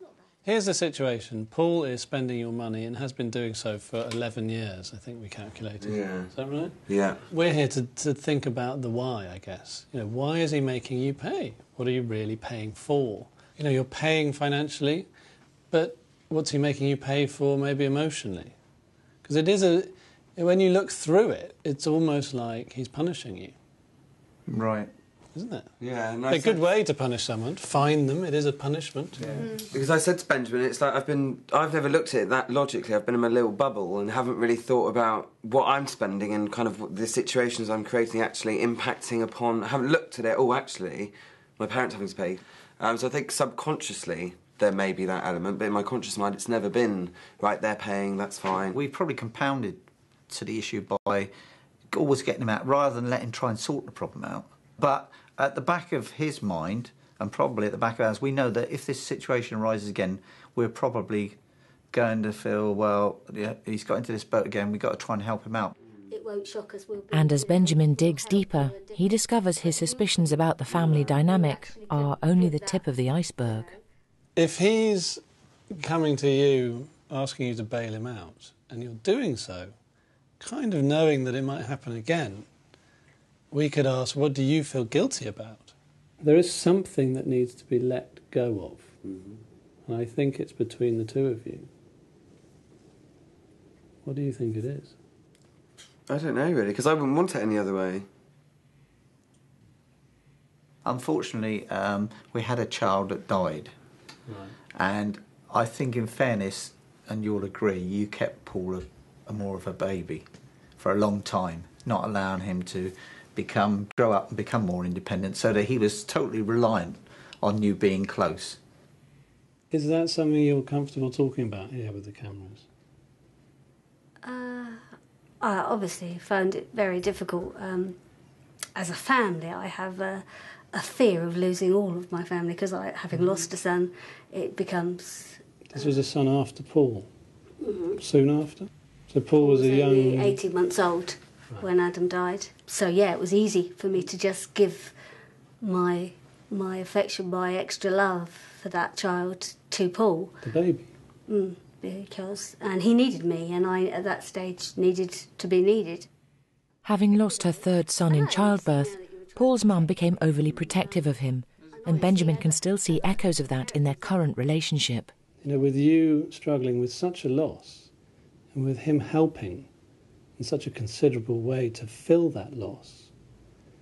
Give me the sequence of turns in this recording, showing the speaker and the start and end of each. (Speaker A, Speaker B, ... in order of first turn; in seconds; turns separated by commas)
Speaker A: 0.4-15.1, Speaker B: 5.8-6.3, Speaker B: 6.9-7.2, Speaker A: 15.7-18.5, Speaker A: 19.2-23.5, Speaker C: 24.5-24.9, Speaker A: 25.3-25.7, Speaker B: 25.8-26.7, Speaker A: 26.3-29.5, Speaker D: 29.4-29.6, Speaker B: 29.7-48.8, Speaker C: 48.7-51.3, Speaker C: 51.9-61.4, Speaker C: 61.9-65.7, Speaker D: 66.1-72.8, Speaker E: 67.1-73.7, Speaker D: 73.5-73.8, Speaker A: 74.3-79.7, Speaker A: 80.4-82.5, Speaker A: 83.5-88.9, Speaker B: 89.0-89.4, Speaker A: 89.9-91.7, Speaker A: 94.0-94.9, Speaker B: 96.1-98.0, Speaker C: 100.8-103.7, Speaker C: 104.7-110.2, Speaker C: 110.8-118.6, Speaker A: 119.7-122.6, Speaker D: 124.2-124.8, Speaker D: 125.4-128.0, Speaker D: 128.8-135.9, Speaker A: 135.7-137.1, Speaker D: 137.6-138.0, Speaker A: 138.0-140.4, Speaker D: 139.4-144.9, Speaker D: 145.6-150.3, Speaker A: 150.4-150.9, Speaker D: 151.3-156.1, Speaker E: 156.8-165.1, Speaker D: 157.2-161.0, Speaker D: 161.7-164.1, Speaker A: 165.4-167.9, Speaker A: 168.5-169.7, Speaker A: 170.4-173.1